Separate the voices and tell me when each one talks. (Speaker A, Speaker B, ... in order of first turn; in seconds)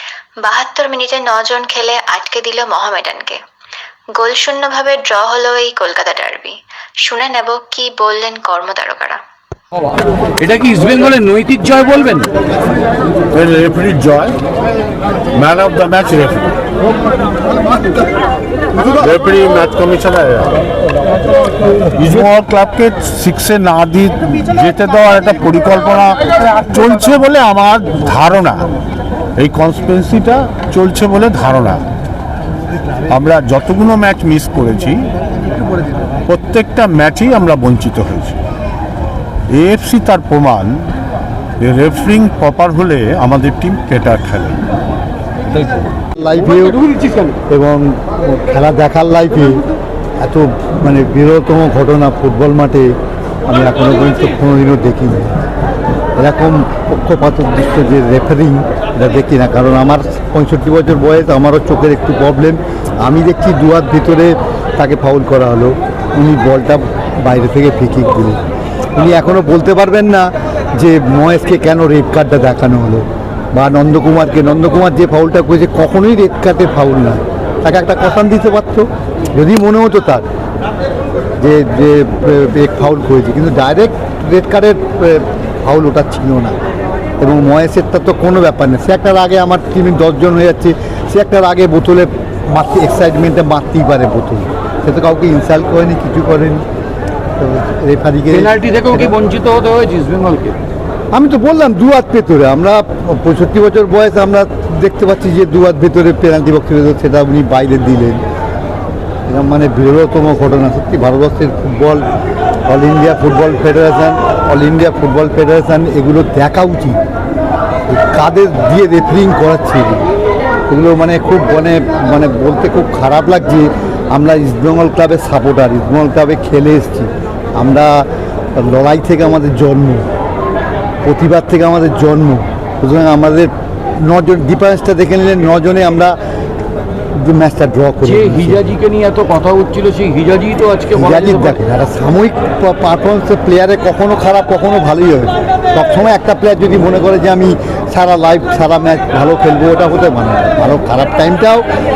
Speaker A: 0.4-3.4, 4.2-9.2
Speaker B: 10.4-12.3, 98.3-100.6, 138.0-141.6
Speaker C: 13.3-14.4, 15.3-16.5, 18.9-20.5, 22.0-28.7, 29.4-31.8, 33.1-35.1, 36.3-38.4, 39.5-40.8, 41.6-44.6
Speaker D: 46.1-46.8, 47.5-49.6, 50.2-52.9, 53.5-55.4, 56.2-68.4, 69.0-80.3, 81.4-86.5, 87.2-96.6, 97.4-99.1, 101.1-108.2, 109.3-112.0, 112.7-117.0, 117.9-120.0, 120.7-130.1, 131.0-136.2, 137.2-138.7, 140.9-151.7